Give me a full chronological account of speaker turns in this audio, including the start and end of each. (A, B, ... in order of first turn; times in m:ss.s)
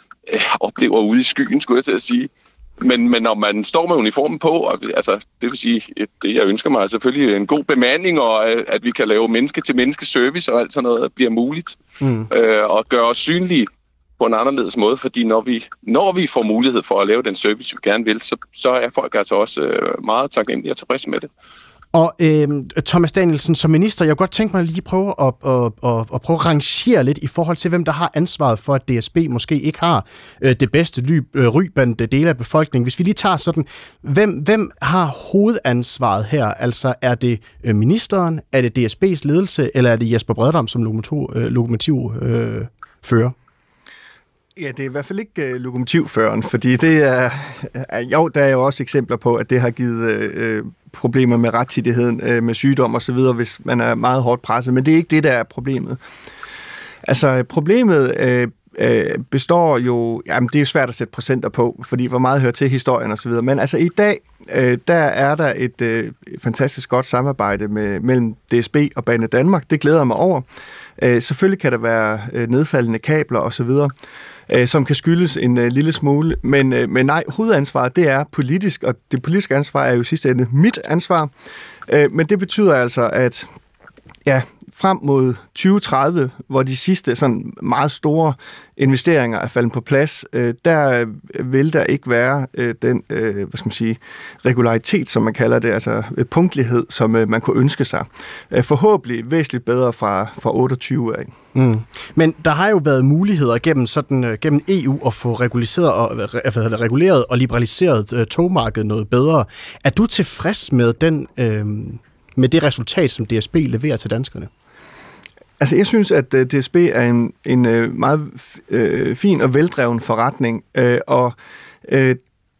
0:00.3-0:11.8 A
0:12.0-0:12.3 B
0:12.3-0:21.3 A
0:21.9-0:43.3 B
0:44.6-0:56.0 C
0:57.0-1:10.4 C
1:11.0-1:13.9 C
1:14.5-1:21.3 C
1:21.9-1:23.5 C
1:24.2-1:41.3 C
1:41.5-1:54.5 B
1:55.6-2:02.2 C